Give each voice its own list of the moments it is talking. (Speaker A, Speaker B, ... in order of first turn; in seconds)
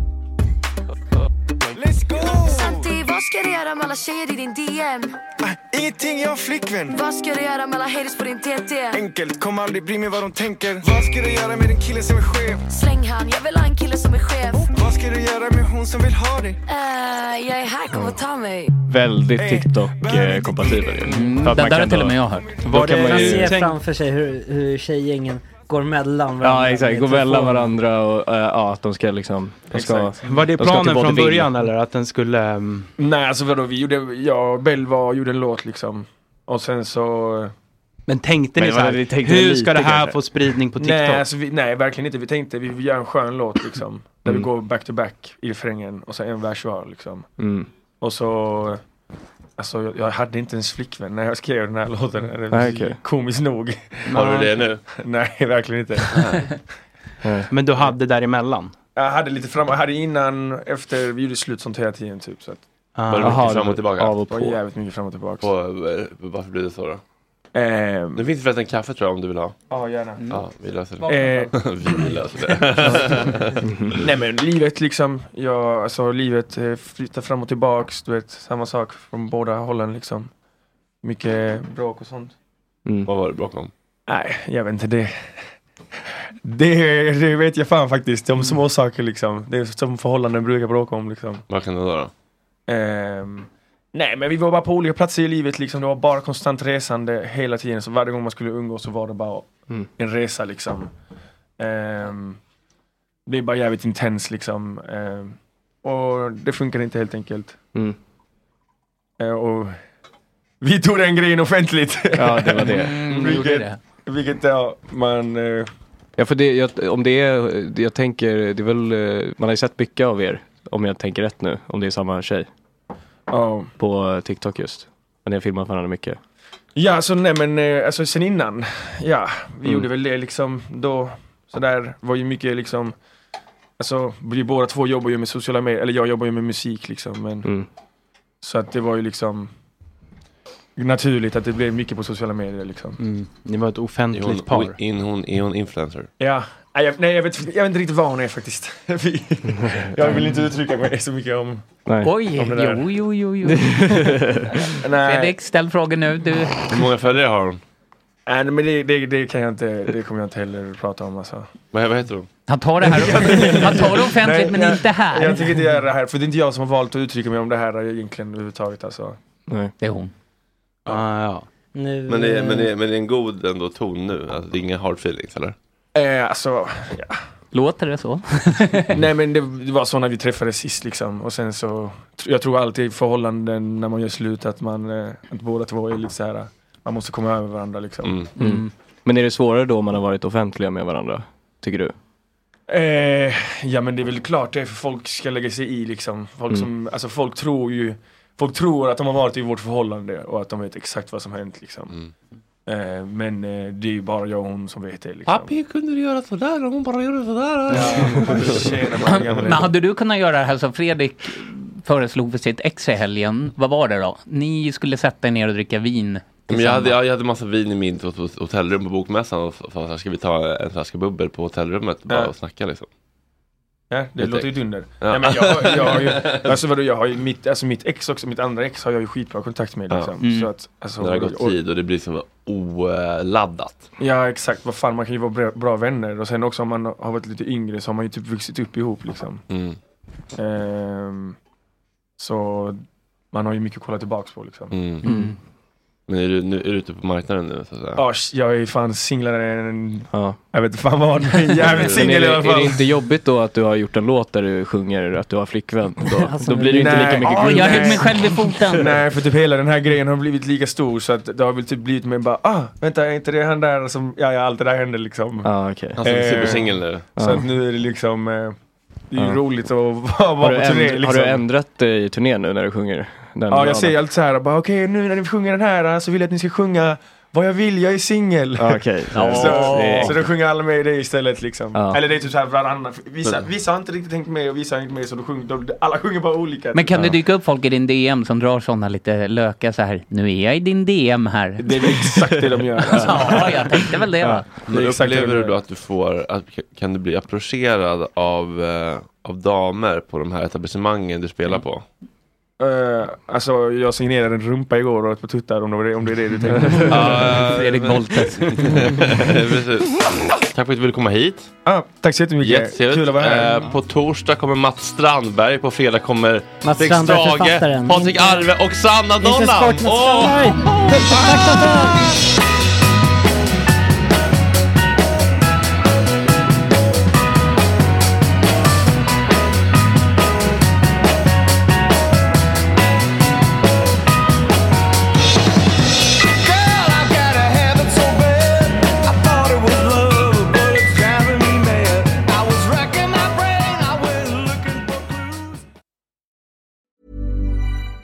Speaker A: 1.8-3.0, 5.4-7.0, 8.9-12.7, 14.5-16.6, 19.4-21.0, 336.4-345.6
Speaker B: 2.3-5.2, 7.0-9.0, 12.7-14.7, 16.7-18.8
Speaker C: 17.9-18.2, 18.9-23.6, 26.4-31.6, 38.5-40.2, 47.4-47.7, 52.5-53.0, 57.2-57.5, 63.2-64.6, 73.7-74.0, 112.2-113.0, 116.2-122.5, 123.8-126.2, 151.9-152.1, 153.5-154.5, 188.4-191.9, 245.1-245.3, 250.1-250.4, 251.8-258.3, 265.4-266.0, 267.2-267.5, 269.1-269.4, 270.4-274.0, 278.6-280.3, 281.7-282.0, 292.2-293.3, 294.2-294.5
Speaker D: 21.1-22.5, 71.0-71.5, 112.6-113.8, 152.0-154.1, 155.0-156.6, 162.5-165.5, 169.8-170.1, 177.5-179.0, 188.4-188.7, 209.0-217.0, 230.2-230.5, 245.1-245.4, 257.2-258.9, 279.1-280.2, 286.7-291.9, 292.8-294.5, 306.6-308.8
Speaker E: 22.7-23.8, 30.2-32.9, 38.1-41.2, 54.1-54.6, 57.5-58.7, 63.0-63.5, 143.0-144.8, 170.9-171.5
Speaker F: 22.7-27.7, 171.7-172.7, 256.1-257.3, 316.6-318.5, 319.2-322.2
Speaker G: 29.7-30.5, 33.0-37.5, 40.8-47.3, 48.0-48.8, 49.6-54.2, 54.9-56.6, 59.0-62.6, 64.2-65.5, 67.5-68.3, 69.7-70.4, 71.0-72.1, 74.0-80.3, 81.0-82.3, 84.1-85.4, 86.4-91.4, 92.7-100.9, 101.6-102.4, 103.3-107.6, 109.2-109.8, 110.6-115.7, 123.3-123.7, 126.8-132.9, 133.8-137.5, 138.4-139.5, 140.8-143.0, 146.2-151.7, 152.3-152.9, 154.8-155.4, 158.3-161.5, 162.9-169.2, 175.9-177.2, 178.9-188.2, 192.7-202.0, 202.7-205.6, 207.7-209.7, 222.1-222.3, 223.9-231.6, 234.0-239.4, 240.4-241.4, 242.2-244.8, 248.0-252.9, 256.8-268.6, 269.1-271.4, 273.5-287.1, 291.6-293.8, 294.7-295.6, 302.6-307.4, 311.6-313.7
Speaker H: 54.1-54.8, 56.1-56.5, 63.1-64.2, 65.4-67.0, 68.2-69.5, 70.3-74.0, 83.1-83.7, 91.5-92.1, 144.1-146.1, 156.7-157.6, 161.7-162.3, 163.0-163.9, 172.1-175.6, 188.0-188.3, 205.3-209.5, 216.5-222.9, 224.2-226.6, 231.0-233.9, 239.5-239.8, 244.7-245.1, 246.1-248.1, 251.6-252.2, 266.0-267.1, 294.6-301.9, 306.9-311.5, 312.4-322.1